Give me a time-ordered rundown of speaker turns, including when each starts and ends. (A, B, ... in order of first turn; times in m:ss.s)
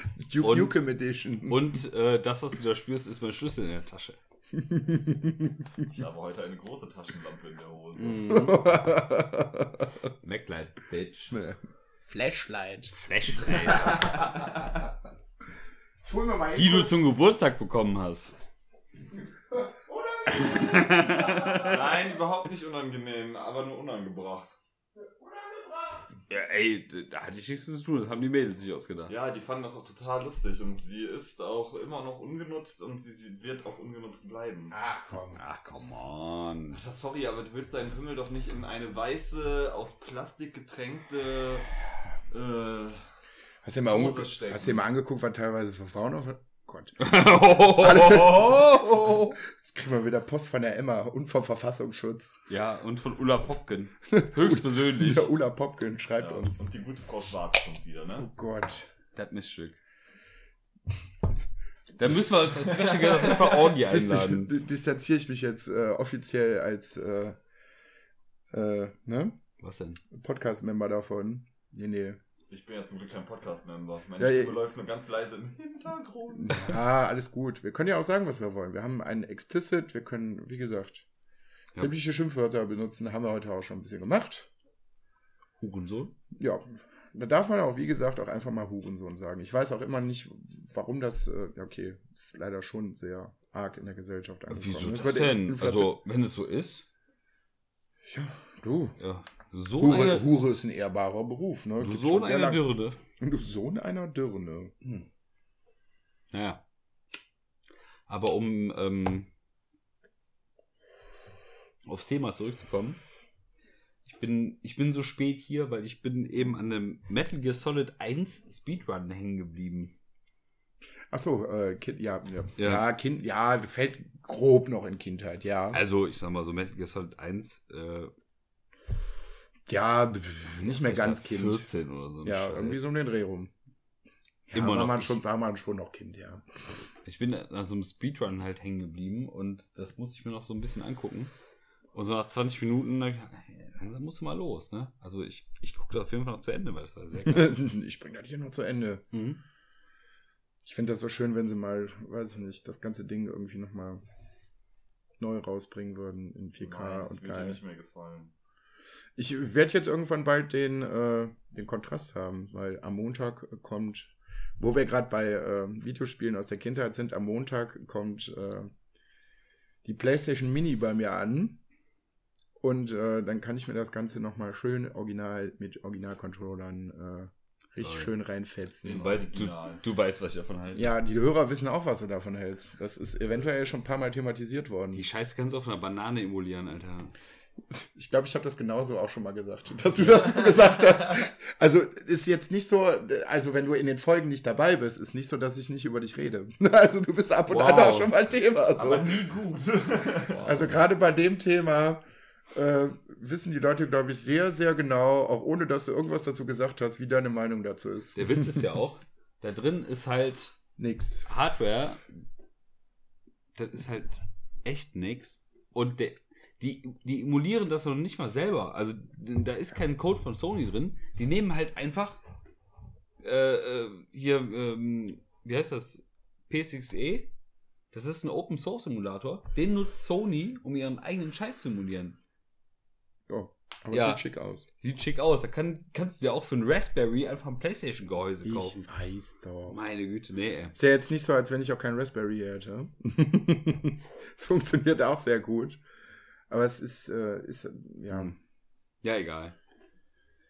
0:00.1-0:01.8 A
0:00.4-0:00.8 B
0:01.5-0:04.2 B
0:04.5-0:05.6 A
0:05.8-0:08.4 C
0:08.0-0:08.7 B
0:08.3-0:09.9 A
0:10.2-0:11.3 B
0:11.3-0:14.4 A
0:12.9-0:14.1 B
0:16.0-0:16.9 A
0:16.5-0:18.3 B
0:19.5-0:22.0 A
0:20.3-0:21.8 B
0:21.6-0:24.6 C
0:25.2-0:26.0 A
0:26.3-0:29.1 B
0:29.1-0:34.7 C
0:34.7-0:35.4 A
0:35.4-0:36.8 B
0:36.7-0:41.7 C
0:42.3-0:43.0 C
0:43.6-0:47.1 A
0:43.8-0:44.8 C
0:47.0-0:49.4 B
0:47.6-0:52.4 A
0:52.5-0:55.3 B
0:54.1-0:56.7 A
0:56.2-0:58.3 C
0:58.2-0:58.9 A
0:59.1-0:59.8 B
1:02.0-1:04.5 B
1:02.8-1:03.6 C
1:03.8-1:07.4 A
1:08.5-1:09.4 A
1:09.6-1:10.0 B
1:10.1-1:12.2 A
1:12.5-1:16.7 C
1:14.2-1:14.6 A
1:16.3-1:21.0 A
1:21.8-1:24.5 A
1:25.6-1:26.1 B
1:26.4-1:35.9 A
1:34.5-1:36.8 B
1:38.0-1:39.0 A
1:39.0-1:40.3 B
1:39.8-1:44.7 A
1:41.8-1:43.0 B
1:46.3-1:46.6 B
1:48.1-1:49.3 B
1:51.8-1:53.0 B
1:54.0-1:59.9 B
2:01.1-2:05.8 A
2:02.6-2:02.8 B
2:05.7-2:08.1 B
2:09.7-2:11.7 A
2:10.6-2:12.8 B
2:12.2-2:13.5 A
2:14.5-2:16.4 A
2:14.5-2:15.2 B
2:17.0-2:21.3 B
2:21.9-2:27.5 B
2:27.2-2:29.0 A
2:29.1-2:29.4 B
2:30.6-2:34.0 A
2:35.2-2:37.6 A
2:36.6-2:38.3 C
2:39.2-2:48.7 A
2:49.8-2:51.6 A
2:52.6-2:59.2 A
2:57.8-2:58.1 B
2:58.8-2:59.8 C
2:58.9-3:00.9 B
3:00.7-3:05.0 A
3:04.9-3:07.1 B
3:07.7-3:19.2 A
3:17.5-3:18.1 B
3:18.7-3:20.6 C
3:20.3-3:20.7 B
3:20.4-3:22.0 A
3:22.5-3:28.6 A
3:28.1-3:30.5 B
3:30.8-3:31.3 A
3:31.2-3:32.0 B
3:33.5-3:42.2 B
3:43.2-3:47.3 B
3:47.9-3:52.2 B
3:53.3-3:54.6 A
3:53.9-3:54.2 B
3:54.8-3:58.8 B
3:58.4-3:59.8 A
3:59.7-4:00.7 B
4:00.7-4:05.8 A
4:06.5-4:08.4 A
4:09.0-4:09.5 B